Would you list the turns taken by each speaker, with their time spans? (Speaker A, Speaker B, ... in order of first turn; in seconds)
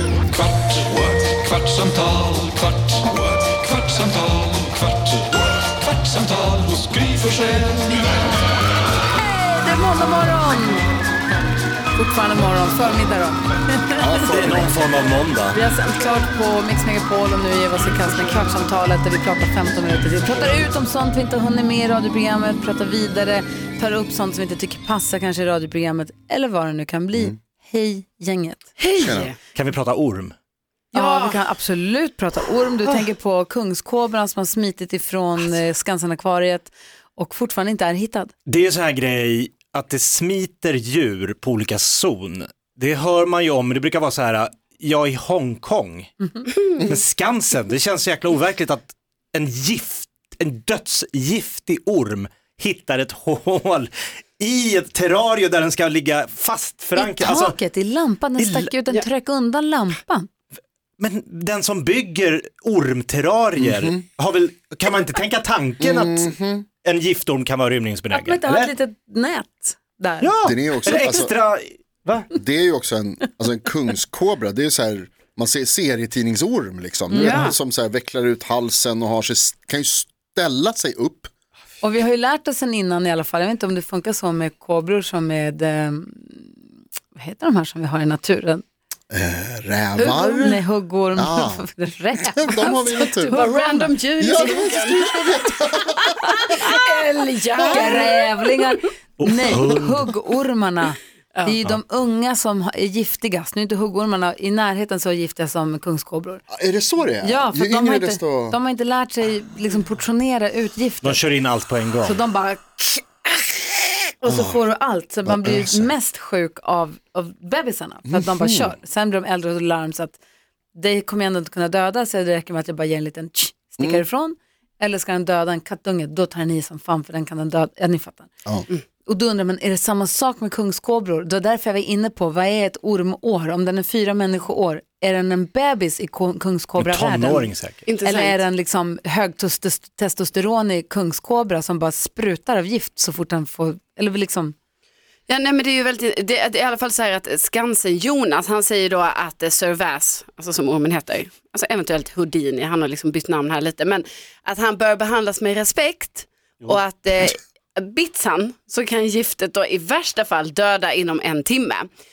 Speaker A: 0.3-8.1
Speaker B: 9.1-10.8, 11.9-14.7, 15.5-28.7, 30.9-38.3, 57.0-60.3, 68.1-70.3, 77.1-77.5, 81.8-86.5, 87.2-88.6, 90.0-94.0, 97.7-106.4, 107.2-111.2, 112.0-120.2, 120.8-128.3, 129.1-144.6
Speaker C: 14.0-14.8, 29.0-29.3, 63.6-64.0, 65.8-66.7, 70.4-71.3, 72.3-81.3, 89.1-90.6, 91.1-93.4, 94.2-96.7, 106.5-108.6, 114.3-114.6, 115.2-115.9, 118.1-118.7
Speaker D: 14.2-15.6, 29.6-30.3, 38.5-46.1, 46.7-57.6, 58.4-58.7, 61.0-68.7, 70.2-72.3, 99.2-100.1, 111.0-112.2, 136.8-137.8
Speaker E: 28.8-29.4, 30.9-31.4, 77.2-77.5, 93.0-95.5, 96.2-98.6, 137.9-138.4, 145.3-161.9